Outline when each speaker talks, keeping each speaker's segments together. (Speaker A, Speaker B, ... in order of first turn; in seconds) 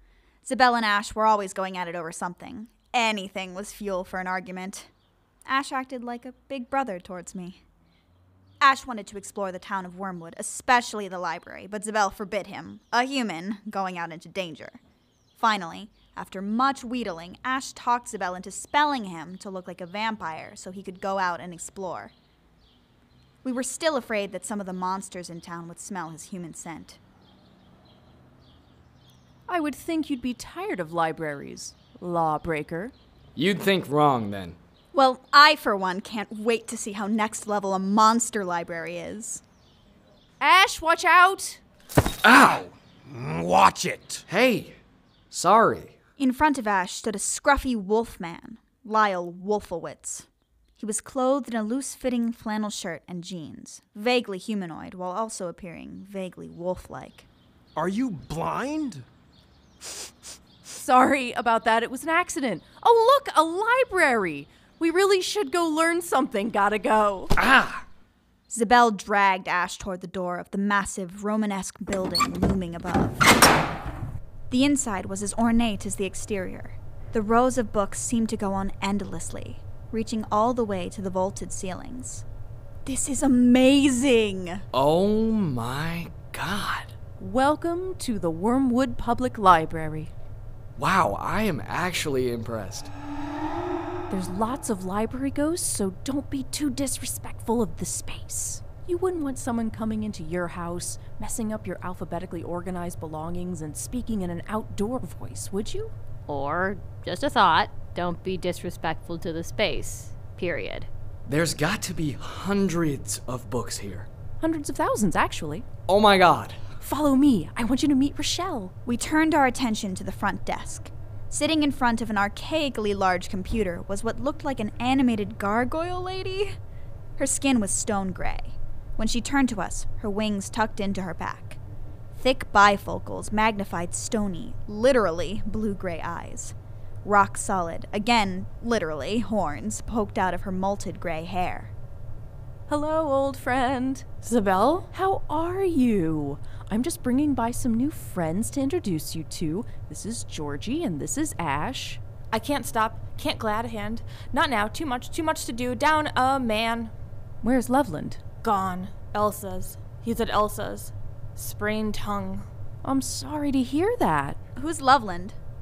Speaker A: 0.5-4.9, 5.5-7.6, 8.6-14.8, 15.4-22.1, 23.4-27.0, 34.9-39.4, 46.2-50.3, 50.8-57.3, 68.5-73.3, 74.5-82.2, 82.9-84.6, 118.9-126.5, 127.2-131.6, 132.1-141.7, 164.6-165.4
Speaker B: 29.5-32.9, 40.4-41.6, 60.7-67.3, 87.2-90.1, 94.1-105.9, 114.4-115.7, 116.8-118.7, 142.7-144.1, 144.9-152.0, 157.4-158.2, 162.8-164.4
Speaker C: 33.4-34.6, 42.2-42.7, 44.3-44.8, 45.3-45.9, 84.7-86.9, 90.8-92.9, 111.3-114.1, 115.9-116.6
Speaker D: 43.1-44.2, 57.8-59.0, 67.4-67.8
Speaker E: 106.3-110.9
Speaker F: 144.2-144.9, 152.3-156.9, 158.4-162.5